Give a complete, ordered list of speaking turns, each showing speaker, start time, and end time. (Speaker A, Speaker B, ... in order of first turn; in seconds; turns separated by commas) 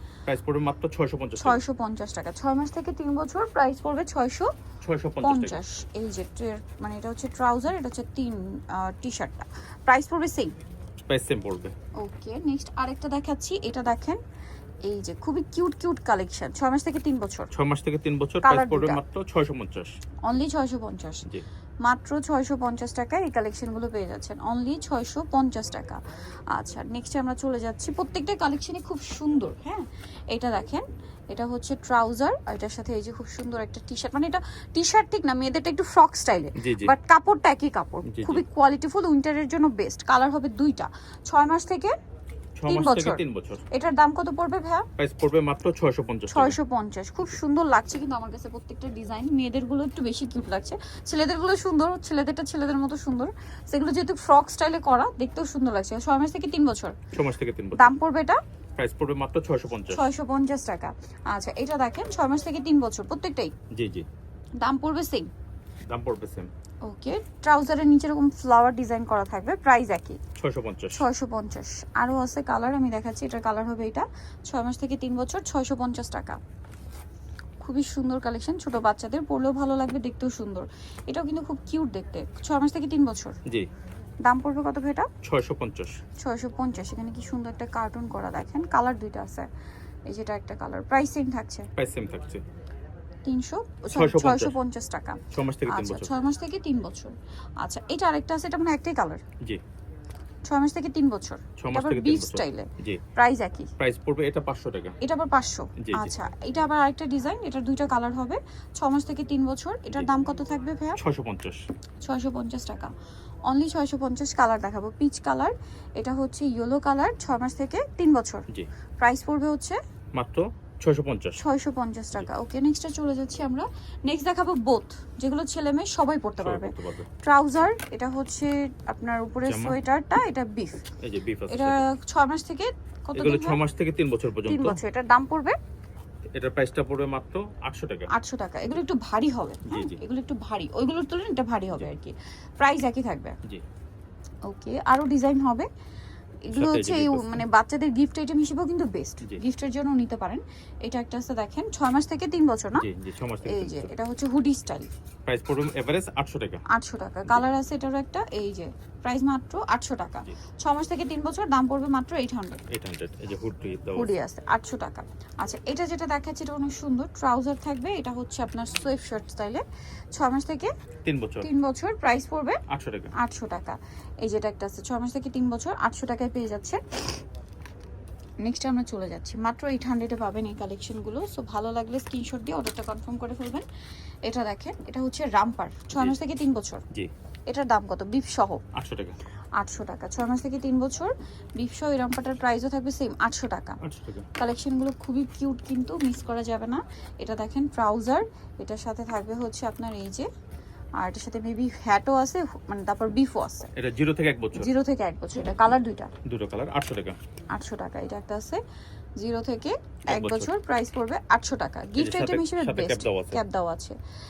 Speaker A: 0.2-1.6, Speaker B: 1.4-4.5, Speaker A: 4.8-5.6, Speaker B: 5.2-10.5, Speaker A: 11.1-11.7, Speaker B: 12.0-14.2, Speaker B: 14.8-17.5, Speaker A: 17.5-19.9, Speaker B: 18.4-19.0, Speaker B: 20.2-21.2, Speaker B: 21.8-26.0, Speaker B: 26.5-41.9, Speaker A: 36.6-36.9, Speaker A: 38.1-38.4, Speaker A: 42.6-43.6, Speaker B: 42.7-44.9, Speaker A: 45.0-46.6, Speaker B: 46.3-57.0, Speaker A: 57.1-57.9, Speaker B: 57.8-58.4, Speaker A: 58.8-60.0, Speaker B: 59.9-63.5, Speaker A: 63.7-64.0, Speaker B: 64.6-65.3, Speaker A: 65.9-66.5, Speaker B: 66.8-70.2, Speaker A: 70.4-71.0, Speaker B: 70.9-76.4, Speaker B: 77.6-83.4, Speaker B: 84.2-85.1, Speaker A: 85.2-86.0, Speaker B: 86.2-89.5, Speaker B: 90.1-91.7, Speaker A: 91.8-92.4, Speaker B: 93.2-99.2, Speaker A: 93.9-94.5, Speaker A: 95.3-96.1, Speaker B: 100.5-103.7, Speaker A: 101.6-103.0, Speaker A: 103.8-105.0, Speaker B: 105.0-111.0, Speaker A: 105.8-106.1, Speaker A: 111.0-111.6, Speaker B: 112.0-112.9, Speaker B: 113.5-118.5, Speaker B: 119.0-119.8, Speaker A: 120.2-121.4, Speaker B: 121.4-130.8, Speaker A: 126.4-127.1, Speaker A: 129.4-129.8, Speaker A: 131.0-131.8, Speaker B: 131.5-133.6, Speaker A: 133.2-134.8, Speaker B: 134.5-135.6, Speaker A: 136.3-138.1, Speaker B: 138.1-143.3, Speaker A: 139.7-140.0, Speaker B: 144.5-145.7, Speaker B: 146.4-152.8, Speaker A: 146.5-147.4, Speaker A: 152.8-153.9, Speaker B: 153.4-154.9, Speaker A: 155.3-156.6, Speaker B: 156.7-162.6, Speaker A: 162.7-164.1, Speaker B: 163.9-169.6, Speaker B: 170.2-170.7, Speaker A: 171.0-171.5, Speaker B: 171.4-172.6, Speaker A: 172.7-173.1, Speaker B: 173.2-176.8, Speaker B: 178.4-183.7, Speaker B: 184.2-186.8, Speaker B: 187.5-188.6, Speaker A: 188.7-189.2, Speaker B: 189.6-193.8, Speaker A: 193.8-194.2, Speaker B: 194.4-200.3, Speaker B: 201.0-203.7, Speaker A: 203.7-204.7, Speaker B: 204.5-206.1, Speaker A: 206.2-207.2, Speaker B: 207.5-208.6, Speaker B: 209.2-213.9, Speaker A: 210.1-210.5, Speaker A: 212.0-213.4